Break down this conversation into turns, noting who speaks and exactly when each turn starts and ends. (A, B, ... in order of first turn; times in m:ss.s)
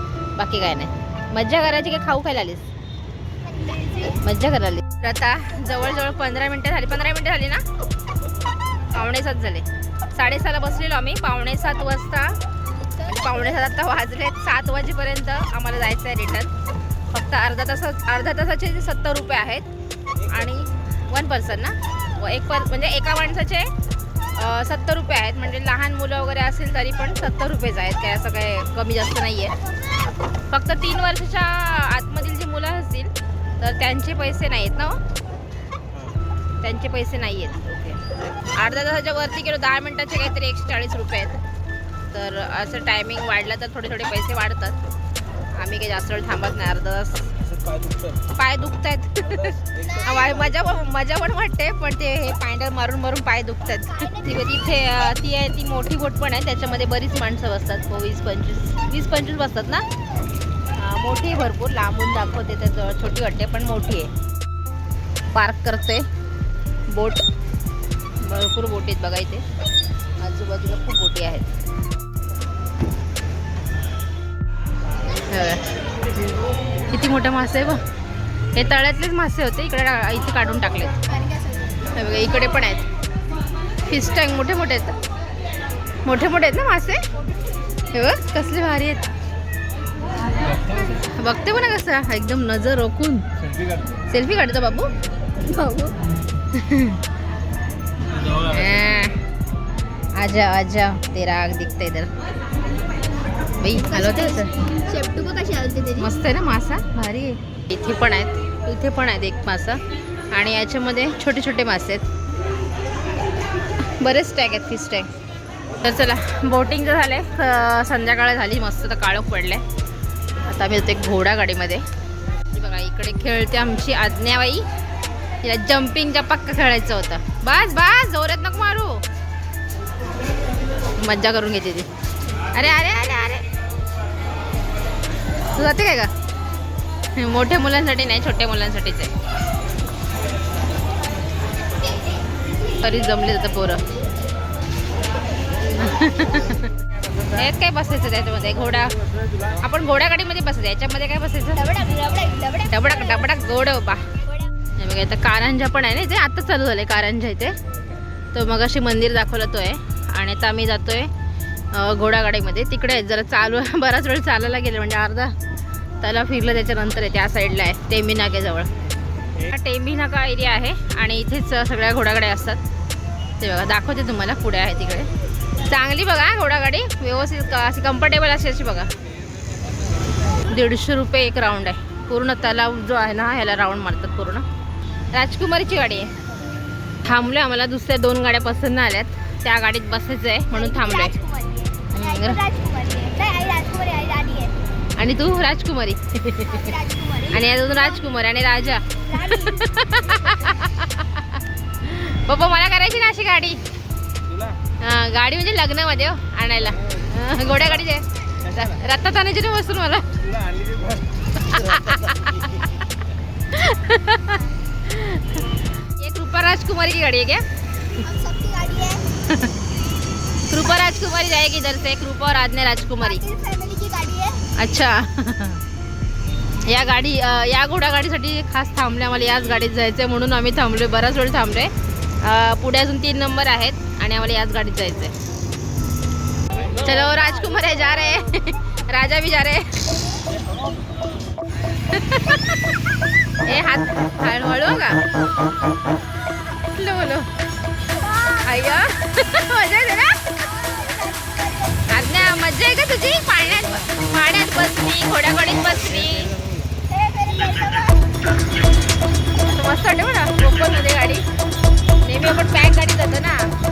0:00.4-0:02.7 A
0:03.4-0:04.2 B
0:04.2-0:07.6 A
0:08.9-0:12.3 A
0:13.0-0:16.5 A
0:13.1-0:13.4 B
0:17.1-0:19.7 A
0:20.2-0:23.7 A
0:24.3-0:29.5 A
0:30.5-0:35.0 A
0:36.6-0:38.0 A
0:38.5-0:41.4 A
0:42.1-0:44.8 A
0:45.6-0:47.3 A
0:47.5-0:48.2 C
0:48.4-0:59.8 A
0:49.4-0:49.8 C
0:49.8-0:50.6 B
0:53.8-0:54.9 B
1:00.7-1:04.1 A
1:05.3-1:06.0 A
1:06.9-1:07.2 A
1:08.2-1:09.4 A
1:10.2-1:11.5 A
1:15.3-1:15.6 A
1:16.9-1:17.8 A
1:18.5-1:20.9 A
1:21.0-1:21.8 B
1:21.9-1:22.8 A
1:23.9-1:25.0 A
1:26.0-1:27.0 A
1:27.9-1:29.0 A
1:31.2-1:33.2 A
1:34.1-1:34.9 A
1:35.4-1:36.0 B
1:36.5-1:37.0 A
1:38.4-1:39.2 A
1:40.2-1:42.1 A
1:43.6-1:44.5 A
1:43.7-1:46.1 B
1:46.0-1:49.8 A
1:50.3-1:52.1 A
1:54.0-1:55.1 A
1:55.8-1:59.6 A
2:00.4-2:01.8 A
2:02.5-2:04.6 A
2:05.4-2:09.0 A
2:11.0-2:11.9 A
2:12.5-2:13.4 A
2:15.5-2:16.1 A
2:17.2-2:19.1 A
2:22.8-2:23.8 A
2:25.8-2:26.7 A
2:27.3-2:28.9 A
2:29.6-2:31.6 A
2:31.5-2:33.3 B
2:32.7-2:34.1 A
2:34.2-2:34.5 B
2:34.8-2:37.5 A
2:38.3-2:41.1 A
2:41.7-2:45.3 A
2:46.0-2:48.7 A
2:49.4-2:52.6 A
2:53.4-2:55.1 A
2:55.6-2:58.9 A
3:00.5-3:04.4 A
3:05.1-3:06.1 A
3:07.0-3:11.1 A
3:10.5-3:14.6 B
3:11.9-3:12.4 A
3:15.0-3:16.7 A
3:16.4-3:18.0 B
3:17.3-3:23.6 A
3:19.0-3:20.6 B
3:24.3-3:24.6 C
3:24.8-3:30.1 A
3:30.2-3:31.1 C
3:31.4-3:32.6 A
3:33.5-3:37.4 A
3:38.0-3:39.0 B
3:40.5-3:43.2 A
3:43.0-3:44.4 B
3:44.6-3:45.6 A
3:46.7-3:55.1 A
3:56.7-3:59.8 A
4:01.9-4:02.7 A
4:03.4-4:05.0 A
4:06.7-4:07.3 A
4:07.9-4:08.7 B
4:08.4-4:10.2 A
4:10.2-4:12.4 B
4:11.9-4:16.3 A
4:16.9-4:18.2 B
4:19.4-4:21.2 A
4:22.0-4:23.4 A